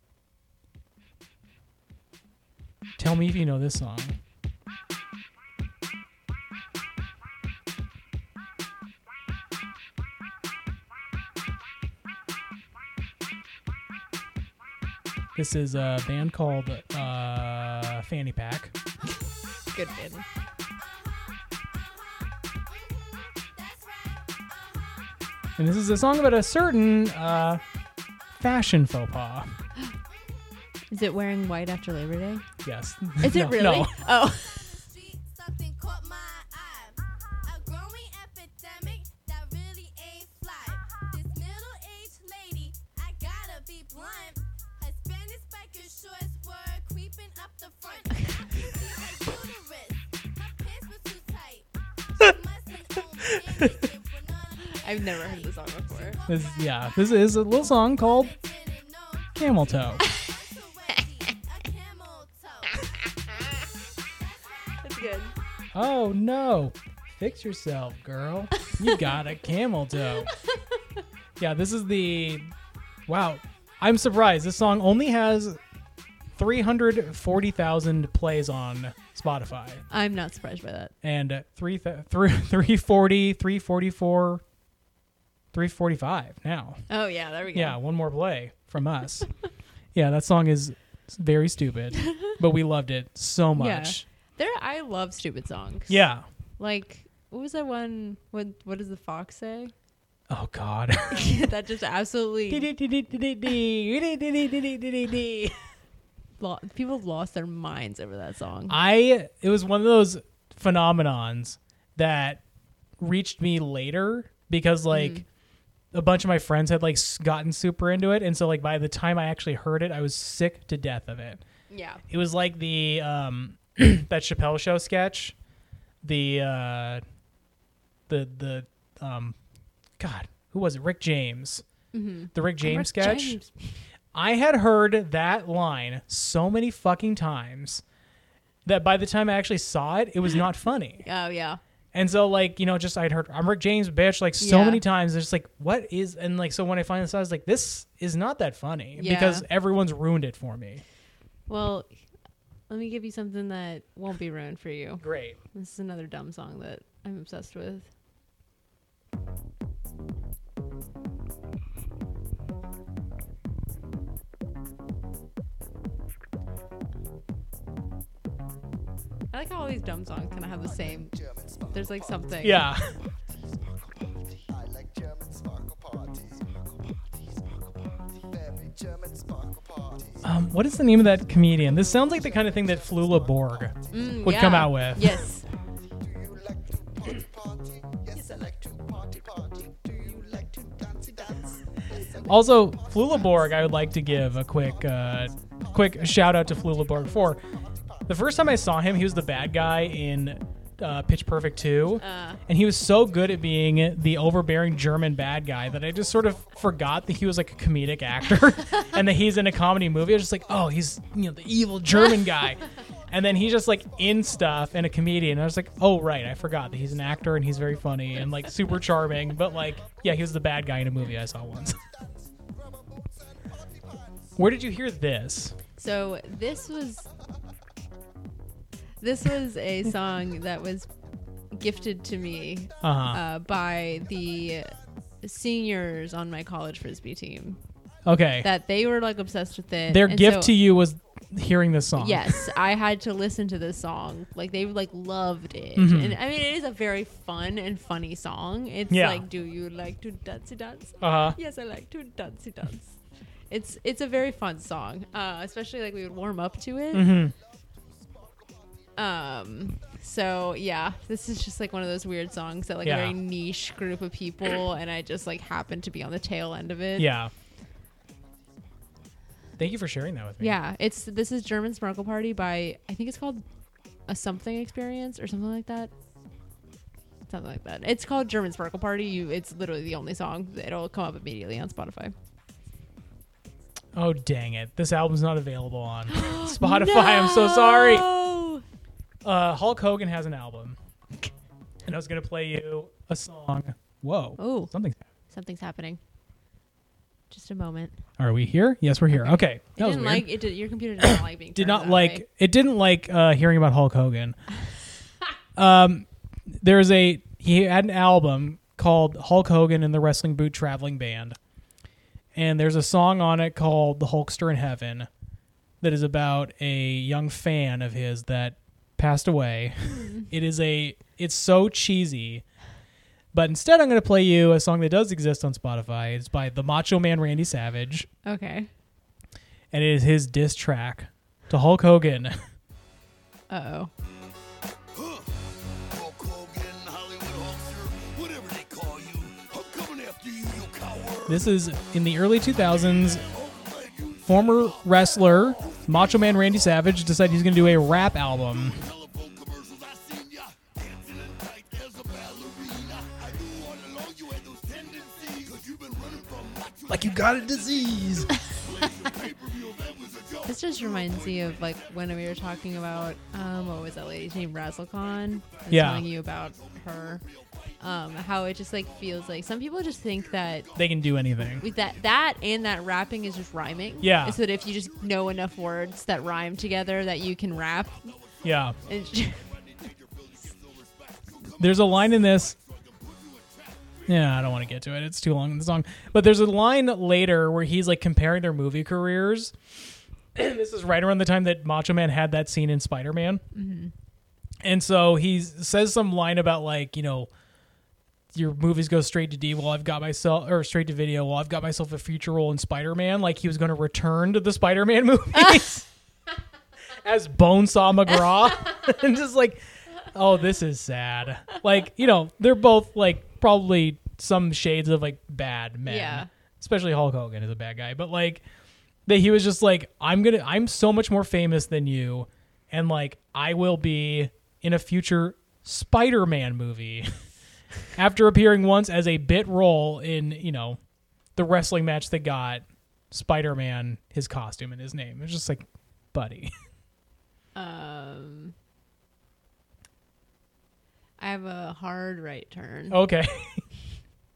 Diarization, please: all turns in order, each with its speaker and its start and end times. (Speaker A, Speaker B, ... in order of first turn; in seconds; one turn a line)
Speaker A: 3.0-4.2
Speaker A: 15.3-18.7
Speaker B: 19.7-20.2
Speaker C: 20.8-25.1
Speaker A: 25.6-27.6
Speaker A: 28.3-29.5
Speaker B: 30.9-32.5
Speaker A: 32.6-33.9
Speaker B: 33.2-34.8
Speaker C: 34.0-63.0
Speaker A: 53.0-53.9
Speaker B: 54.6-56.2
Speaker A: 56.3-58.3
Speaker A: 59.4-60.0
Speaker B: 64.8-65.3
Speaker A: 65.7-70.3
Speaker B: 68.6-69.1
Speaker A: 71.4-72.5
Speaker A: 73.1-75.6
Speaker A: 76.3-79.8
Speaker B: 79.9-80.9
Speaker A: 81.0-84.4
Speaker A: 85.5-86.8
Speaker B: 86.9-87.8
Speaker A: 87.5-89.3
Speaker A: 89.9-94.0
Speaker B: 93.6-96.0
Speaker A: 95.9-96.2
Speaker B: 96.6-99.7
Speaker A: 100.3-101.4
Speaker B: 101.1-102.7
Speaker A: 102.5-105.5
Speaker B: 106.4-108.8
Speaker A: 108.7-112.4
Speaker A: 113.0-115.2
Speaker B: 114.9-115.2
Speaker A: 115.9-121.4
Speaker B: 121.7-122.0
Speaker A: 122.1-125.3
Speaker A: 126.0-127.0
Speaker A: 128.1-129.3
Speaker A: 130.0-131.6
Speaker B: 131.9-133.8
Speaker A: 132.3-133.4
Speaker A: 134.1-137.8
Speaker A: 138.6-141.0
Speaker B: 141.0-141.6
Speaker A: 141.9-150.8
Speaker B: 144.4-144.8
Speaker B: 148.9-149.4
Speaker B: 151.5-151.9
Speaker B: 152.7-157.9
Speaker A: 155.0-155.4
Speaker B: 169.3-171.1
Speaker D: 171.0-172.5
Speaker B: 171.7-172.7
Speaker A: 172.4-172.9
Speaker D: 174.5-176.8
Speaker D: 178.3-180.3
Speaker A: 180.2-185.2
Speaker D: 181.9-183.7
Speaker B: 183.9-185.4
Speaker D: 186.0-192.4
Speaker A: 192.2-197.4
Speaker A: 198.1-221.8
Speaker B: 202.0-202.4
Speaker A: 224.4-225.6
Speaker B: 225.8-227.1
Speaker B: 229.0-230.9
Speaker B: 231.5-237.6
Speaker A: 232.8-233.2
Speaker A: 238.0-238.5
Speaker B: 238.4-240.5
Speaker A: 239.9-242.4
Speaker B: 241.9-253.0
Speaker A: 245.8-246.2
Speaker A: 248.9-249.2
Speaker A: 251.0-251.4
Speaker B: 253.5-257.2
Speaker A: 256.9-257.3
Speaker B: 258.9-267.1
Speaker A: 262.8-263.1
Speaker A: 267.0-267.3
Speaker A: 269.6-270.6
Speaker B: 270.4-273.4
Speaker B: 274.1-275.9
Speaker B: 277.3-282.1
Speaker A: 283.9-288.1
Speaker B: 286.1-288.6
Speaker A: 289.2-290.8
Speaker A: 291.9-295.0
Speaker B: 294.4-294.7
Speaker B: 295.3-296.0
Speaker B: 297.3-298.0
Speaker A: 298.2-300.3
Speaker B: 299.2-302.2
Speaker A: 301.0-304.4
Speaker A: 305.6-311.4
Speaker A: 312.3-315.1
Speaker A: 315.8-322.4
Speaker A: 323.3-328.1
Speaker B: 328.2-328.7
Speaker A: 329.7-332.4
Speaker B: 333.5-333.9
Speaker E: 335.0-335.3
Speaker E: 335.9-341.3
Speaker A: 341.3-343.2
Speaker E: 343.2-344.9
Speaker A: 344.2-348.9
Speaker E: 345.5-345.8
Speaker E: 348.7-356.9
Speaker A: 356.9-358.4
Speaker E: 358.6-360.4
Speaker B: 358.8-359.3
Speaker D: 358.8-360.2
Speaker B: 360.4-367.2
Speaker A: 365.7-366.1
Speaker B: 367.8-370.7
Speaker A: 370.7-371.7
Speaker B: 371.6-378.2
Speaker A: 374.0-374.4
Speaker A: 378.4-378.8
Speaker B: 378.8-379.6
Speaker D: 379.6-381.6
Speaker E: 379.9-381.6
Speaker A: 381.6-382.6
Speaker D: 382.3-383.0
Speaker E: 383.1-383.5
Speaker A: 384.1-389.6
Speaker A: 390.3-393.4
Speaker B: 393.5-393.9
Speaker A: 394.6-397.3
Speaker A: 398.3-405.9
Speaker A: 406.9-418.4
Speaker B: 415.9-416.3
Speaker A: 419.1-427.1
Speaker A: 427.9-430.8
Speaker A: 431.4-436.5
Speaker B: 437.5-438.5
Speaker B: 441.2-443.0
Speaker A: 442.9-443.6